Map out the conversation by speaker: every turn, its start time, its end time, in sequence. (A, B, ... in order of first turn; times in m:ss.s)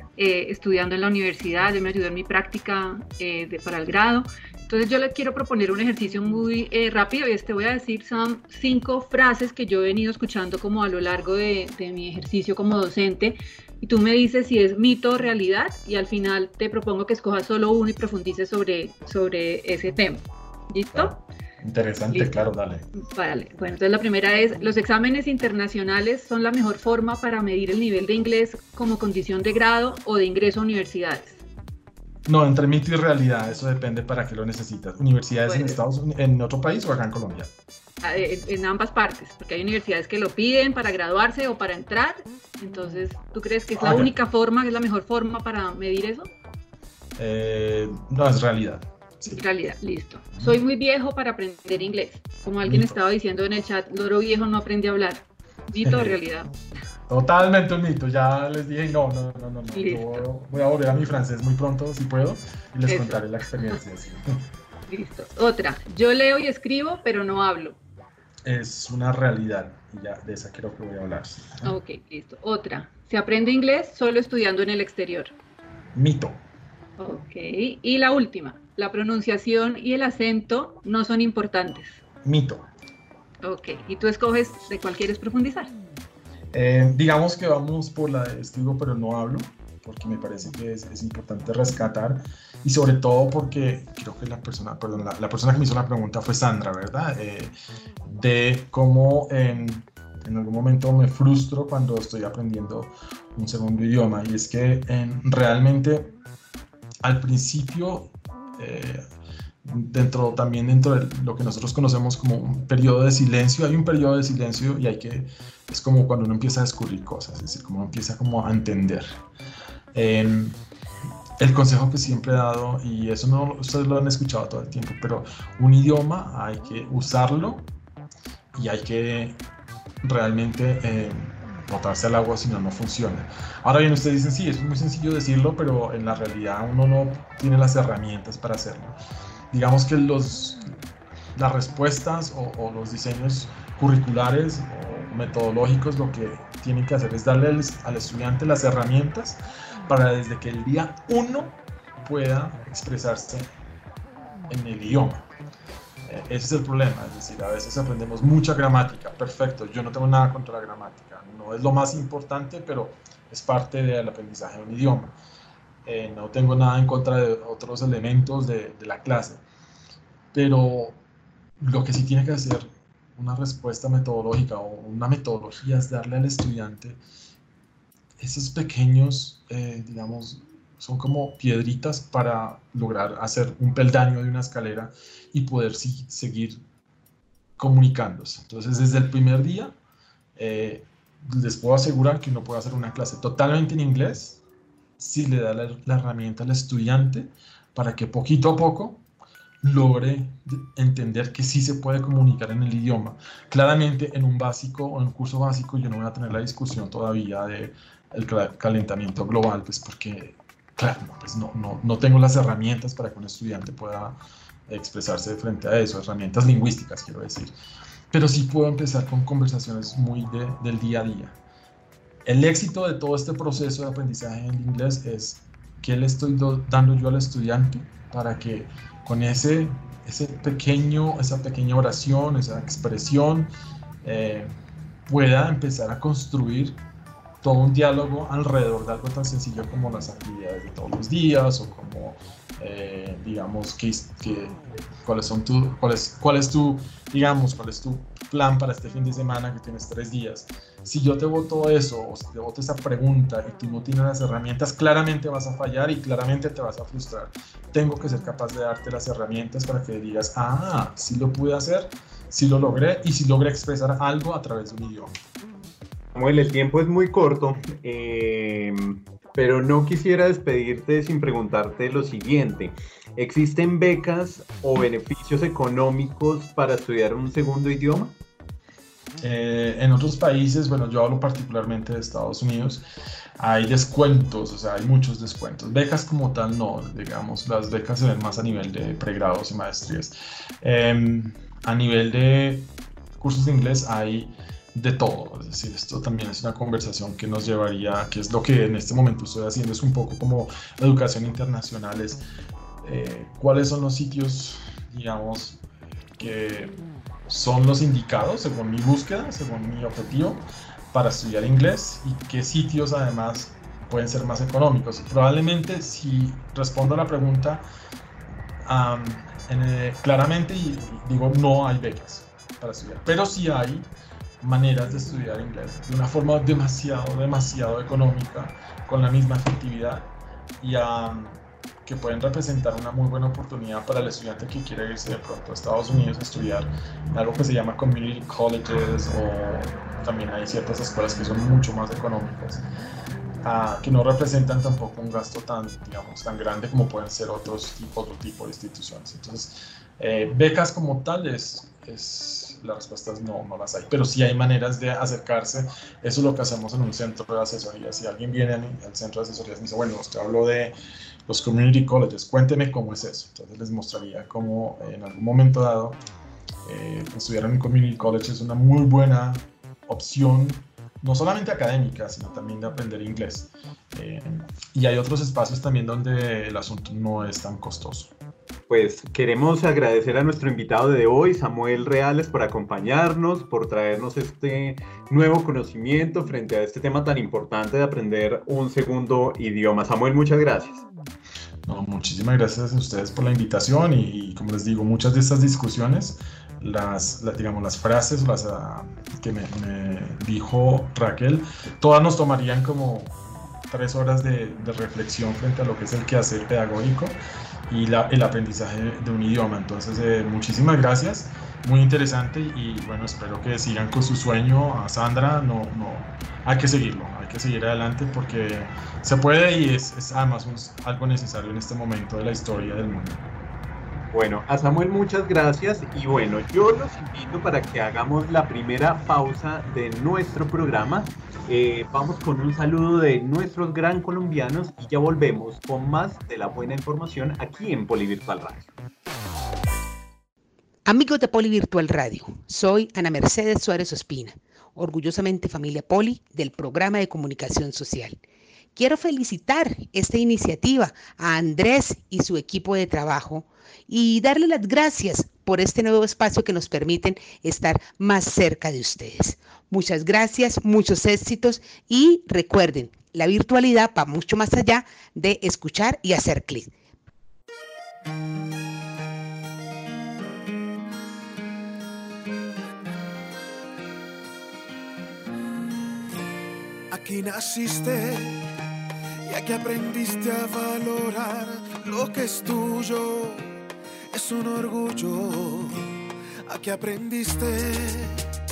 0:00.2-0:21.1 A
0:20.9-0:22.8 B
0:22.9-0:31.4 A
0:32.3-0:37.5 B
0:35.5-0:35.8 A
0:38.0-0:46.3 A
0:43.8-0:44.1 B
0:47.2-0:49.4 B
0:49.2-0:56.5 A
0:52.6-0:53.0 B
0:55.8-0:56.2 B
0:57.1-1:04.4 B
0:59.7-1:00.2 A
1:02.9-1:03.2 A
1:04.9-1:07.8 A
1:08.4-1:11.7 B
1:11.6-1:15.3 A
1:16.0-1:16.4 B
1:17.0-1:22.0 A
1:22.2-1:22.7 B
1:23.4-1:25.7 A
1:26.5-1:37.5 B
1:38.0-1:46.2 B
1:47.0-1:49.0 B
1:49.6-1:59.2 B
1:59.9-2:00.6 B
2:01.4-2:07.7 B
2:08.5-2:09.4 B
2:10.0-2:19.0 B
2:19.5-2:20.7 B
2:21.4-2:33.5 B
2:34.5-2:35.3 B
2:36.1-2:45.1 B
2:45.8-2:49.4 B
2:50.3-2:51.0 B
2:51.6-2:57.0 B
2:58.2-3:06.6 B
3:07.6-3:09.8 B
3:10.4-3:14.4 B
3:15.0-3:19.0 B
3:19.6-3:37.5 B
3:38.1-3:41.4 B
3:42.2-3:53.5 B
3:54.0-3:54.5 B
3:55.1-3:56.8 B
3:57.4-4:25.1 B
4:26.2-4:38.2 C
4:39.2-4:42.8 B
4:43.4-5:02.2 B
5:02.8-5:05.6 B
5:06.2-5:17.6 B
5:18.6-5:23.9 B
5:24.4-5:30.1 B
5:30.6-5:42.6 B
5:43.4-6:00.8 B
6:01.3-6:06.0 B
6:06.6-6:18.1 B
6:18.7-6:30.8 C
6:31.6-6:43.2 B
6:43.7-6:47.2 B
6:47.7-7:03.3 B
7:04.1-7:18.7 C
7:20.8-7:28.2 D
7:28.8-7:46.7 D
7:56.9-7:58.4 E
7:59.3-8:03.5 E
8:04.1-8:05.8 E
8:06.5-8:08.2 E